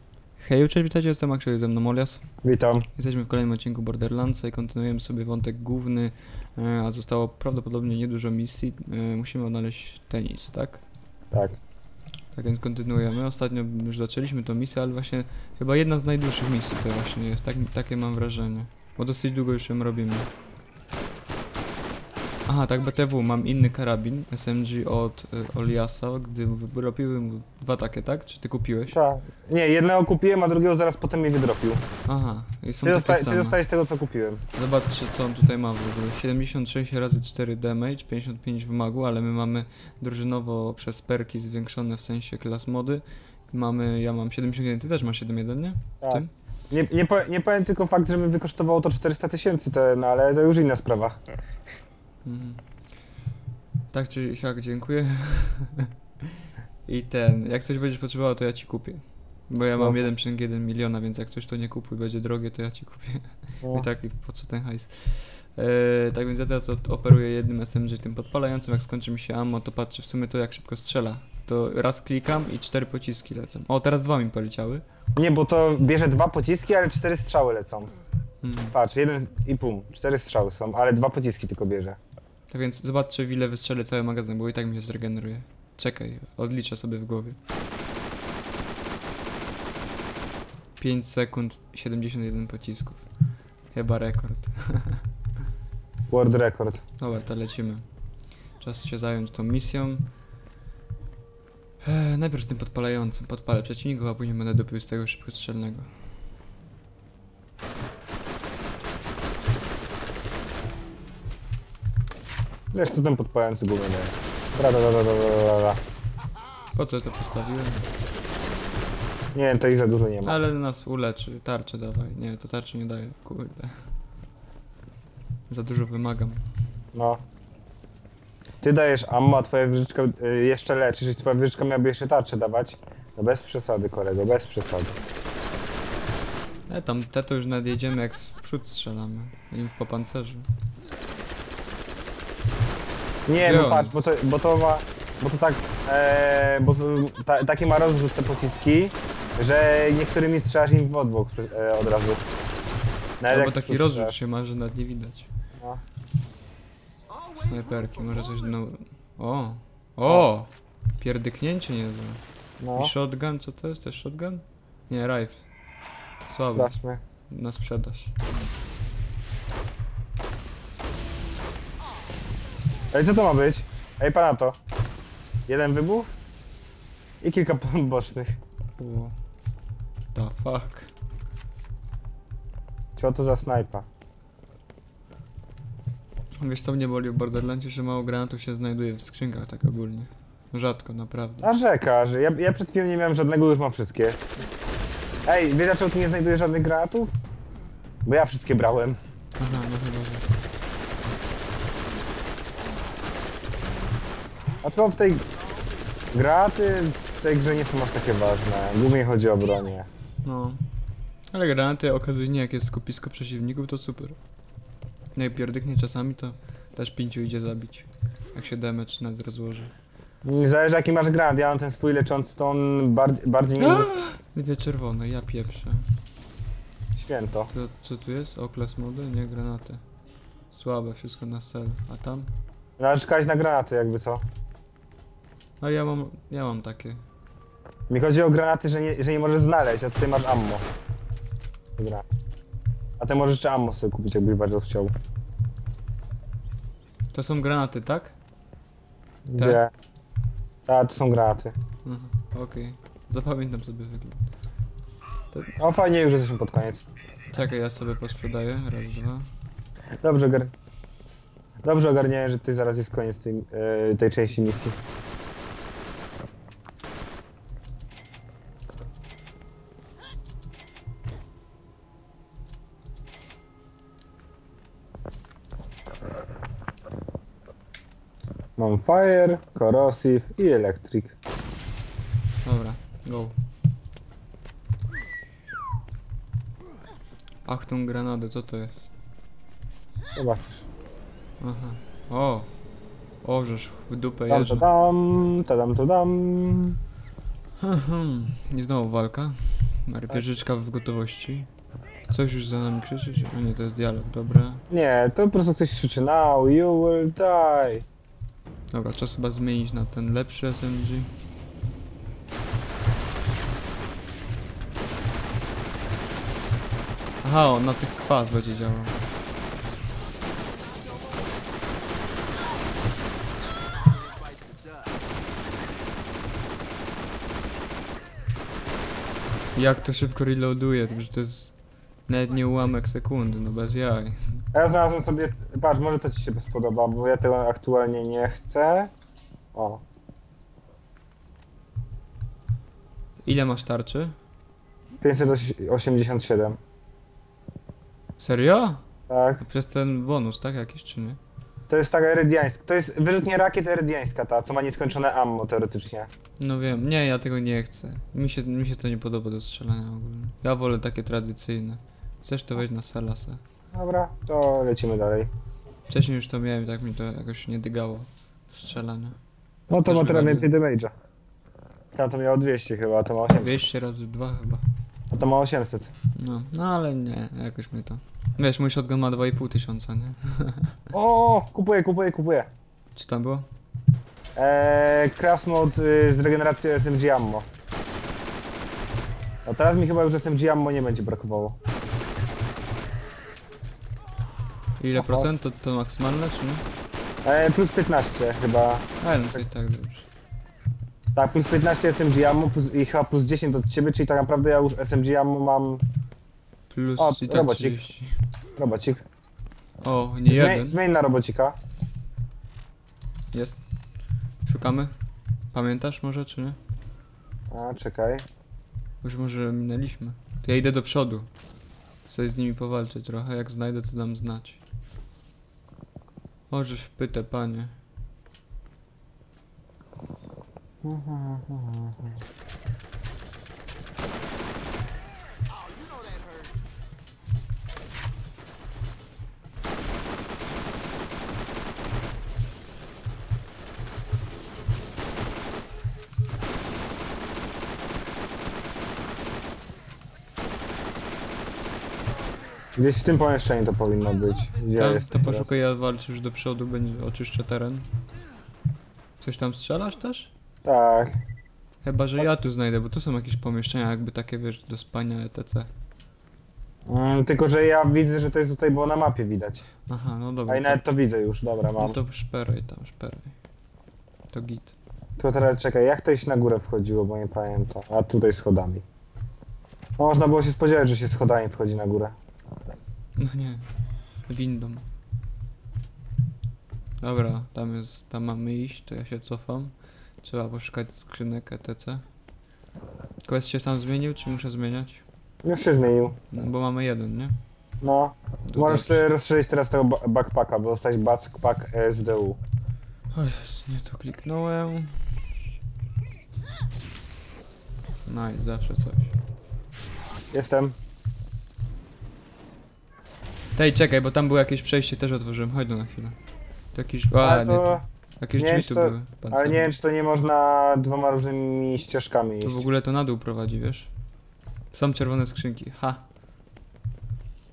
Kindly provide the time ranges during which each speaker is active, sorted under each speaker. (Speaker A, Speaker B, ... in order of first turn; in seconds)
Speaker A: 0.4-2.3, 2.9-10.8, 12.3-20.3, 22.5-29.0, 32.0-33.6, 34.5-46.3, 52.2-52.6, 53.9-56.3, 56.9-74.8, 78.4-78.8, 82.5-87.4, 90.8-93.0, 93.7-95.0, 97.0-97.9, 98.6-100.1, 101.8-106.2, 116.8-117.8, 120.2-123.8, 125.5-126.4, 136.7-140.5, 143.3-143.9, 153.3-155.3, 157.3-162.2, 162.7-165.5, 166.3-166.7, 167.3-168.1, 178.8-179.2, 180.1-180.9, 186.4-191.6, 199.4-200.3, 210.2-210.6, 211.3-214.2, 215.2-219.7, 223.6-225.8, 227.5-229.8, 230.5-232.3, 235.6-237.0, 247.1-248.2, 249.3-249.6, 251.8-254.3, 255.3-255.6, 257.3-259.3, 282.4-283.4, 287.4-288.9, 291.4-292.5, 293.2-294.6, 297.6-301.5, 302.1-304.6, 308.7-311.1, 317.2-319.0, 329.6-334.4, 343.2-344.1, 348.2-348.8, 349.4-351.2, 356.4-363.4, 365.9-369.2, 369.8-370.5, 373.3-374.6, 376.1-380.8, 382.9-383.5, 394.8-396.6, 399.0-400.1, 406.7-408.2, 409.8-410.8, 413.3-413.6, 414.4-414.9, 415.5-416.6, 419.0-421.3, 422.1-424.6, 426.5-427.8, 454.8-457.9, 459.2-460.3, 461.8-465.7, 469.9-470.8, 471.8-473.4, 474.3-474.8, 483.2-483.7, 484.3-484.9, 487.0-492.1, 493.2-495.0, 496.3-497.4, 498.5-499.0, 503.1-505.2, 508.1-509.1, 513.5-516.2, 516.7-519.7, 522.4-523.9, 524.7-526.0
Speaker B: 2.4-2.9, 11.3-11.6, 28.9-31.8, 32.8-34.4, 46.0-51.2, 59.8-60.0, 75.1-77.9, 78.7-82.0, 96.1-96.8, 112.7-115.8, 119.3-120.4, 126.9-127.2, 128.6-135.0, 143.3-152.2, 153.2-154.1, 162.6-162.9, 166.5-167.0, 172.9-174.6, 175.5-176.1, 177.2-178.4, 182.9-183.9, 191.4-194.2, 195.2-197.2, 198.0-199.0, 204.6-205.2, 206.1-209.9, 220.2-223.9, 226.9-227.5, 232.8-234.2, 237.9-240.7, 241.8-242.0, 243.0-244.9, 249.2-249.7, 250.7-251.5, 255.6-256.8, 260.0-260.5, 261.6-264.8, 278.6-281.1, 290.1-290.6, 294.3-296.8, 304.7-307.8, 334.5-338.9, 339.5-339.8, 345.0-346.6, 349.1-349.4, 351.7-356.1, 363.7-365.3, 369.7-370.9, 371.9-373.6, 375.1-375.9, 380.9-382.5, 384.4-387.5, 389.4-391.6, 394.9-395.4, 397.2-399.4, 401.1-405.8, 407.0-407.8, 408.6-409.0, 410.3-411.6, 417.5-418.2, 430.8-432.2, 452.8-455.5, 460.6-461.2, 466.9-469.6, 470.5-472.0, 475.2-478.8, 480.0-482.1, 495.4-496.1, 497.8-502.4, 510.3-510.8, 517.2-517.9, 518.4-522.7